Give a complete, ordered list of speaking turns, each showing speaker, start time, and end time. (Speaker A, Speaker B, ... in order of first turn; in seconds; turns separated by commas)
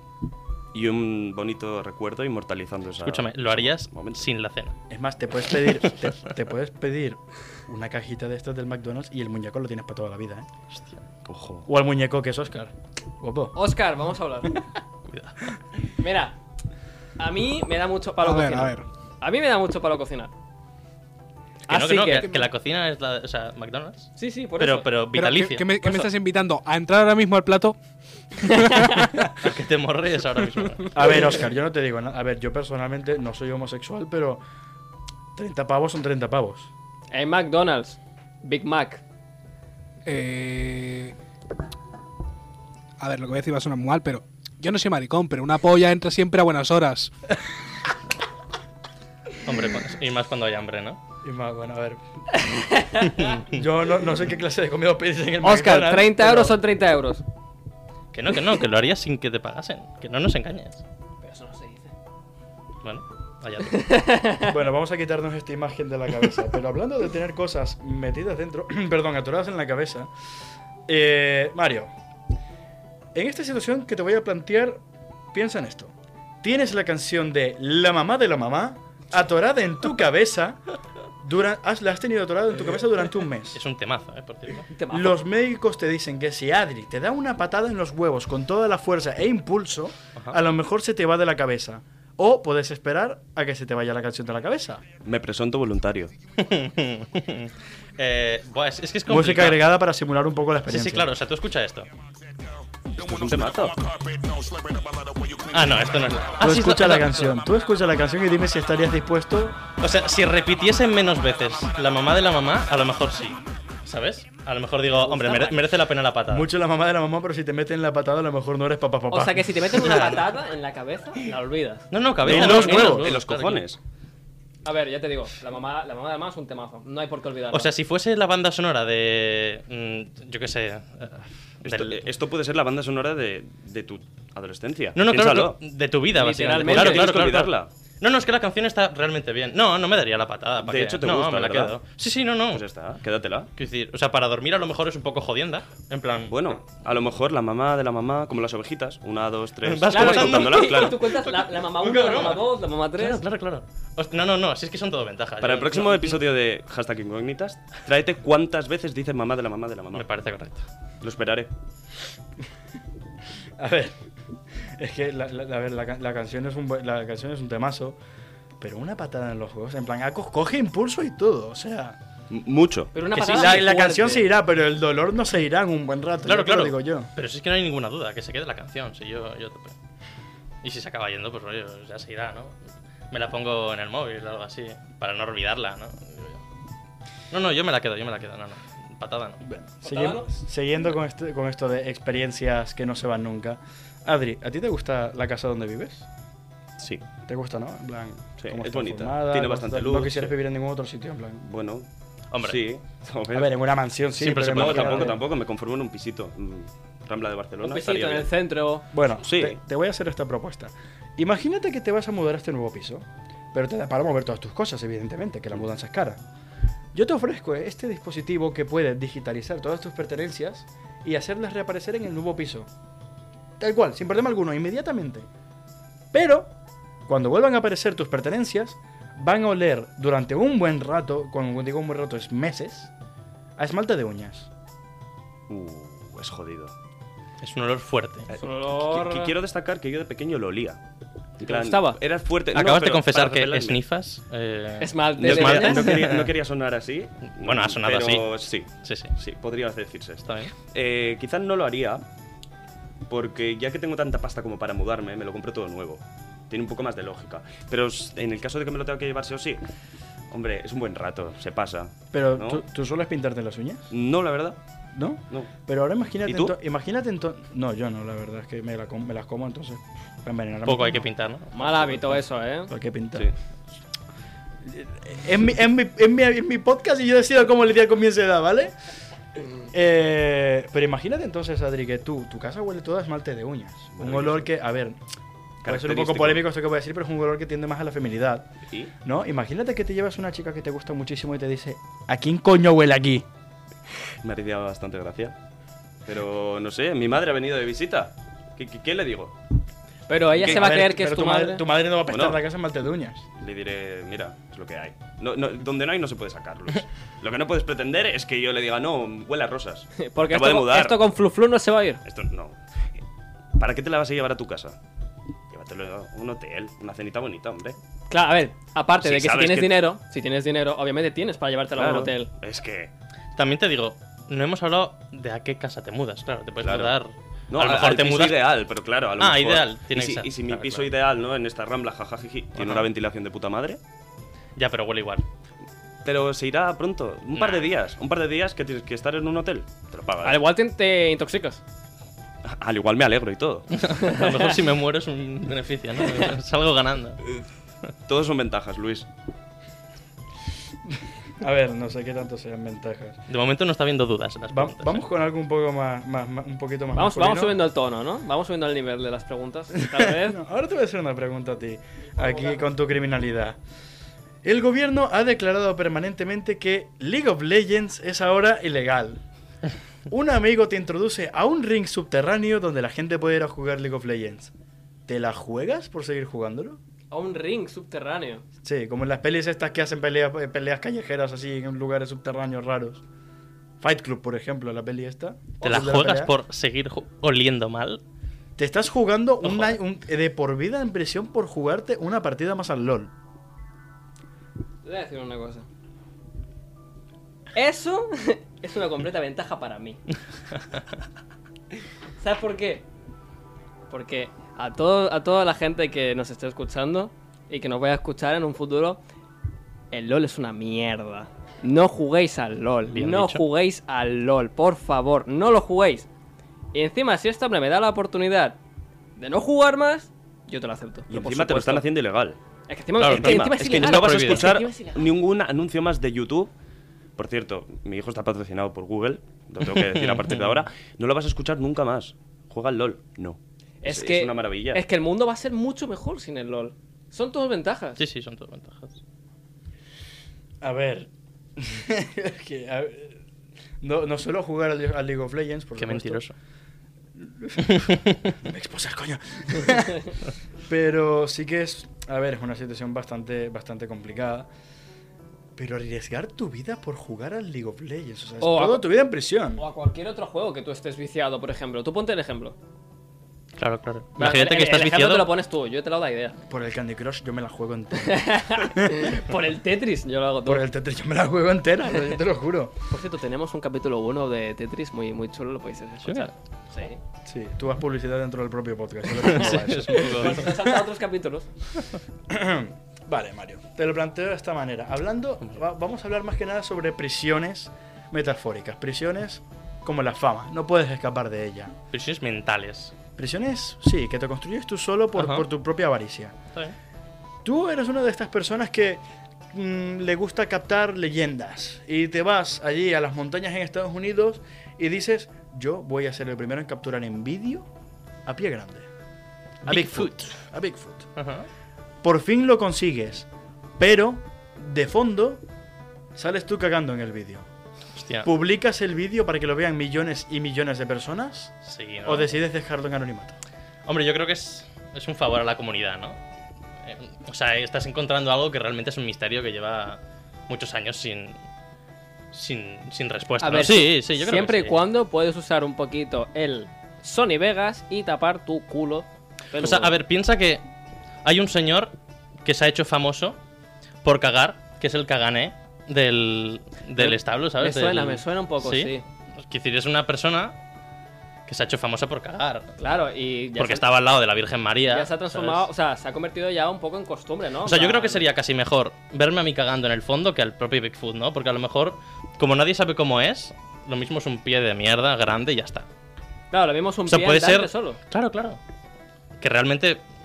Speaker A: 0.7-4.3, Speaker B: 3.0-4.8, Speaker C: 4.9-10.5, Speaker A: 11.3-11.7, Speaker C: 11.7-13.6, Speaker D: 13.6-14.6, Speaker B: 15.1-15.5, Speaker D: 16.0-16.4, Speaker D: 17.2-20.3, Speaker E: 18.2-18.9, Speaker D: 21.7-22.4, Speaker B: 21.7-25.8, Speaker D: 24.2-24.9, Speaker E: 25.1-27.8, Speaker E: 28.4-29.2, Speaker D: 28.5-29.1, Speaker B: 29.3-31.2, Speaker C: 30.9-34.4, Speaker C: 35.4-36.7, Speaker D: 37.1-39.0, Speaker E: 40.0-41.1, Speaker E: 43.0-47.1, Speaker B: 49.5-51.0, Speaker C: 51.2-52.0, Speaker D: 52.5-53.2, Speaker C: 53.4-56.6, Speaker D: 55.4-57.2, Speaker B: 58.1-60.8, Speaker D: 61.2-61.9, Speaker B: 62.8-63.9, Speaker D: 63.7-64.5, Speaker C: 64.4-70.1, Speaker C: 70.9-71.9, Speaker C: 73.1-74.8, Speaker C: 75.3-80.6, Speaker C: 81.2-83.6, Speaker B: 83.5-84.7, Speaker D: 84.7-85.2, Speaker C: 84.9-94.8, Speaker A: 95.0-96.1, Speaker B: 96.4-99.7, Speaker C: 99.1-101.1, Speaker B: 100.7-101.9, Speaker A: 103.0-103.8, Speaker B: 105.5-107.4, Speaker C: 106.4-109.7, Speaker B: 109.8-116.5, Speaker D: 114.9-115.7, Speaker C: 116.3-119.7, Speaker D: 119.1-121.9, Speaker B: 119.8-120.3, Speaker B: 121.9-123.7, Speaker A: 122.2-123.8, Speaker C: 122.2-123.1, Speaker D: 124.7-127.7, Speaker B: 127.5-132.0, Speaker A: 131.6-135.6, Speaker B: 134.9-142.6, Speaker D: 136.2-137.1, Speaker A: 136.6-137.7, Speaker A: 140.6-141.8, Speaker A: 142.5-143.5, Speaker B: 143.6-146.6, Speaker A: 146.3-151.1, Speaker B: 149.6-156.2, Speaker D: 149.9-153.2, Speaker A: 155.4-160.1, Speaker B: 159.9-160.6, Speaker A: 161.0-161.5, Speaker C: 163.6-164.0, Speaker C: 164.8-168.0, Speaker C: 168.6-172.0, Speaker A: 172.3-172.9, Speaker D: 172.9-174.3, Speaker B: 173.2-173.4, Speaker C: 173.2-177.1, Speaker B: 176.3-179.8, Speaker B: 180.6-182.5, Speaker B: 183.1-186.4, Speaker B: 187.3-189.5, Speaker C: 189.4-196.1, Speaker D: 189.8-190.3, Speaker A: 196.8-197.1, Speaker C: 197.3-201.4, Speaker A: 198.4-200.3, Speaker A: 201.4-201.9, Speaker B: 202.3-202.6, Speaker A: 202.4-203.6, Speaker C: 203.3-205.2, Speaker B: 204.2-205.1, Speaker A: 204.4-208.3, Speaker D: 207.6-208.9, Speaker C: 208.9-216.2, Speaker A: 209.2-209.6, Speaker C: 216.9-222.7, Speaker C: 223.6-225.3, Speaker C: 226.1-226.5, Speaker C: 227.1-232.9, Speaker C: 233.6-234.5, Speaker A: 235.5-236.7, Speaker B: 237.4-238.3, Speaker A: 238.3-240.8, Speaker D: 238.3-239.3, Speaker A: 241.4-243.8, Speaker D: 241.4-242.0, Speaker B: 242.5-246.3, Speaker D: 244.8-246.1, Speaker A: 245.2-252.1, Speaker B: 247.4-248.3, Speaker B: 248.8-249.1, Speaker B: 250.2-250.5, Speaker A: 253.1-259.6, Speaker A: 260.3-262.6, Speaker C: 262.1-263.9, Speaker A: 263.9-264.6, Speaker C: 264.9-271.1, Speaker A: 266.3-266.5, Speaker B: 270.7-271.9, Speaker D: 271.5-272.7, Speaker C: 272.7-273.3, Speaker C: 274.6-278.8, Speaker C: 279.7-285.0, Speaker A: 283.9-284.5, Speaker A: 285.6-286.4, Speaker C: 285.6-288.5, Speaker C: 289.0-293.3, Speaker A: 294.2-295.4, Speaker A: 296.1-299.4, Speaker D: 300.1-301.6, Speaker C: 300.4-303.3, Speaker A: 302.1-302.4, Speaker A: 303.4-311.0, Speaker D: 310.0-312.0, Speaker A: 312.1-312.6, Speaker A: 313.6-314.8, Speaker A: 315.5-317.8, Speaker D: 318.1-322.3, Speaker A: 319.0-319.8, Speaker A: 321.8-322.9, Speaker B: 323.4-328.5, Speaker A: 326.6-326.9, Speaker A: 327.5-333.8, Speaker B: 329.2-330.9, Speaker B: 332.6-332.9, Speaker B: 334.6-335.2, Speaker A: 336.0-340.4, Speaker B: 337.3-337.7, Speaker D: 340.2-341.6, Speaker A: 342.4-343.7, Speaker B: 343.7-347.2, Speaker D: 344.0-344.5, Speaker A: 348.1-349.1, Speaker C: 350.9-353.2, Speaker B: 353.3-355.0, Speaker C: 354.5-357.6, Speaker D: 356.9-360.4, Speaker C: 359.8-363.6, Speaker D: 362.2-362.7, Speaker C: 364.4-369.2, Speaker C: 370.1-374.5, Speaker C: 375.1-376.8, Speaker D: 377.1-378.4, Speaker C: 378.6-383.0, Speaker C: 383.8-386.3, Speaker B: 385.6-388.0, Speaker C: 388.6-393.1, Speaker B: 389.4-389.8, Speaker D: 394.8-395.7, Speaker D: 397.6-400.0, Speaker D: 402.2-402.9, Speaker D: 403.9-409.0, Speaker D: 409.9-416.1, Speaker B: 412.9-413.4, Speaker D: 416.7-418.6, Speaker D: 419.2-421.9, Speaker A: 421.1-422.4, Speaker D: 422.7-425.1, Speaker B: 423.0-424.6, Speaker A: 423.0-426.5, Speaker A: 427.2-434.8, Speaker B: 429.6-430.6, Speaker D: 433.8-438.0, Speaker B: 438.0-439.0, Speaker C: 440.6-443.2, Speaker C: 443.8-446.2, Speaker B: 445.8-446.3, Speaker C: 447.2-450.1, Speaker B: 447.7-448.2, Speaker C: 450.7-454.5, Speaker C: 455.6-459.6, Speaker D: 458.4-458.9, Speaker D: 459.6-462.6, Speaker B: 463.6-465.3, Speaker D: 464.2-466.4, Speaker C: 466.5-469.2, Speaker D: 468.0-470.6, Speaker C: 470.4-472.7, Speaker D: 472.9-477.0, Speaker C: 477.2-480.6, Speaker B: 479.2-480.5, Speaker D: 479.9-481.5, Speaker C: 482.3-491.7, Speaker B: 491.9-492.9, Speaker C: 493.2-496.4, Speaker B: 495.2-495.4, Speaker C: 497.4-507.7, Speaker C: 508.3-508.9, Speaker B: 509.6-510.4, Speaker C: 509.6-511.1, Speaker B: 511.2-511.5, Speaker C: 512.0-515.4, Speaker C: 516.1-517.5, Speaker B: 518.0-518.3, Speaker C: 518.2-523.4, Speaker B: 521.6-522.4, Speaker B: 523.9-526.2, Speaker B: 526.8-531.4, Speaker B: 532.3-534.8, Speaker D: 533.4-540.0, Speaker B: 539.6-540.6, Speaker B: 541.2-541.9, Speaker B: 542.5-543.4, Speaker B: 544.0-550.6, Speaker D: 547.0-549.0, Speaker B: 551.5-552.8, Speaker D: 552.8-553.9, Speaker B: 553.6-555.7, Speaker D: 554.9-558.2, Speaker B: 557.6-565.9, Speaker D: 566.5-568.0, Speaker B: 567.1-568.6, Speaker B: 569.4-570.0